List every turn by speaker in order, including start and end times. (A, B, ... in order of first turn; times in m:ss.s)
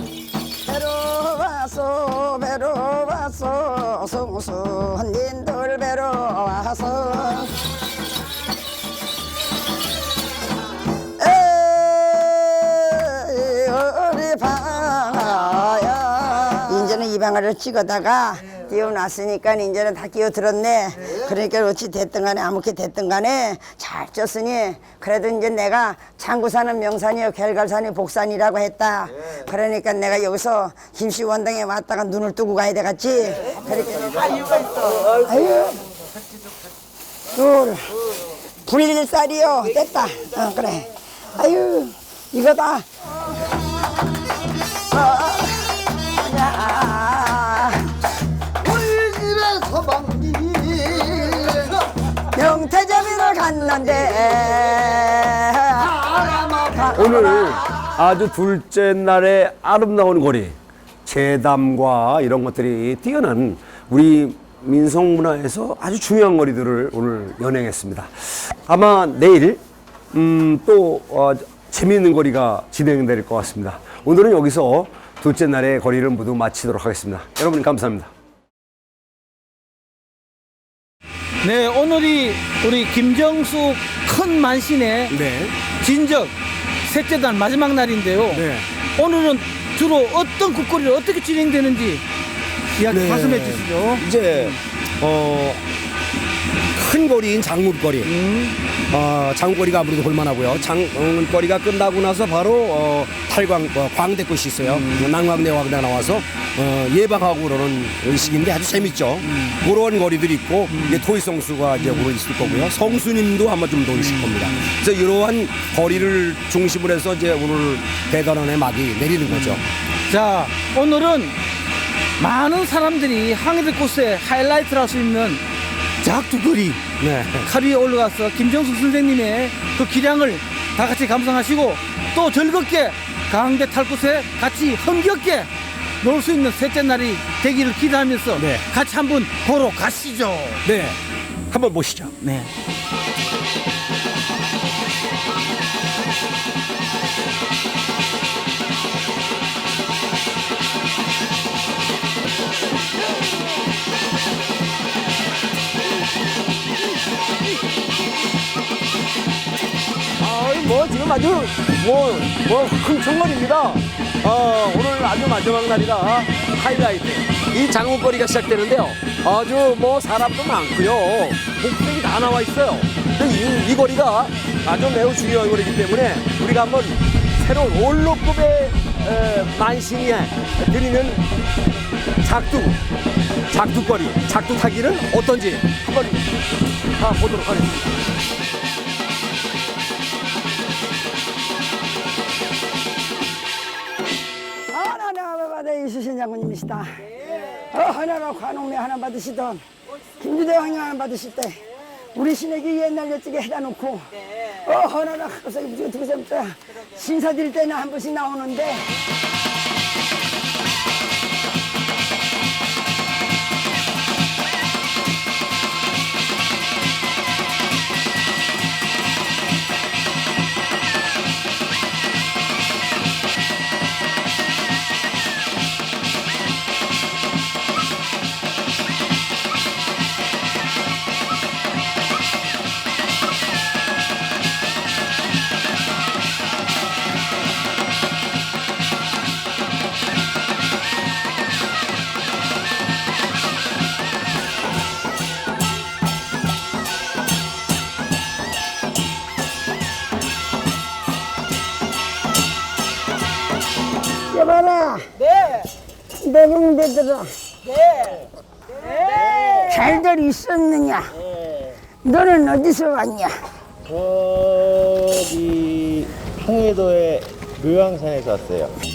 0:00.6-0:07.5 A
0:11.2-0:35.8 A
0:37.3-0:37.9 A
0:38.6-0:42.8 A
0:44.9-0:47.9 A
0:48.7-0:51.7 B
0:52.3-0:57.6 A
0:56.9-1:09.6 C
1:10.1-1:18.1 C
1:21.4-1:25.2 D
1:25.1-1:25.6 C
1:25.8-1:26.3 D
1:26.8-1:32.0 D
1:28.3-1:28.7 C
1:32.8-1:34.5 D
1:32.9-1:35.6 C
1:36.7-1:38.1 C
1:38.0-1:38.6 D
1:38.9-1:59.6 C
1:50.7-1:51.0 D
1:51.9-1:52.7 D
1:54.0-1:54.6 D
1:59.3-2:01.4 D
2:02.2-2:05.4 D
2:06.0-2:06.8 D
2:07.0-2:07.5 C
2:07.4-2:15.5 D
2:16.0-2:20.6 D
2:18.4-2:18.6 C
2:20.6-2:21.0 C
2:21.5-2:22.1 C
2:22.2-2:22.5 D
2:40.2-3:01.2 C
3:02.2-3:02.8 C
3:03.5-3:06.3 C
3:07.0-3:08.0 C
3:14.7-3:16.9 A
3:17.5-3:19.6 A
3:20.2-3:28.9 A
4:14.3-4:15.1 A
4:16.2-4:17.3 A
4:19.2-4:19.6 B
4:19.5-4:21.1 A
4:22.0-4:23.3 A
4:23.9-4:28.7 B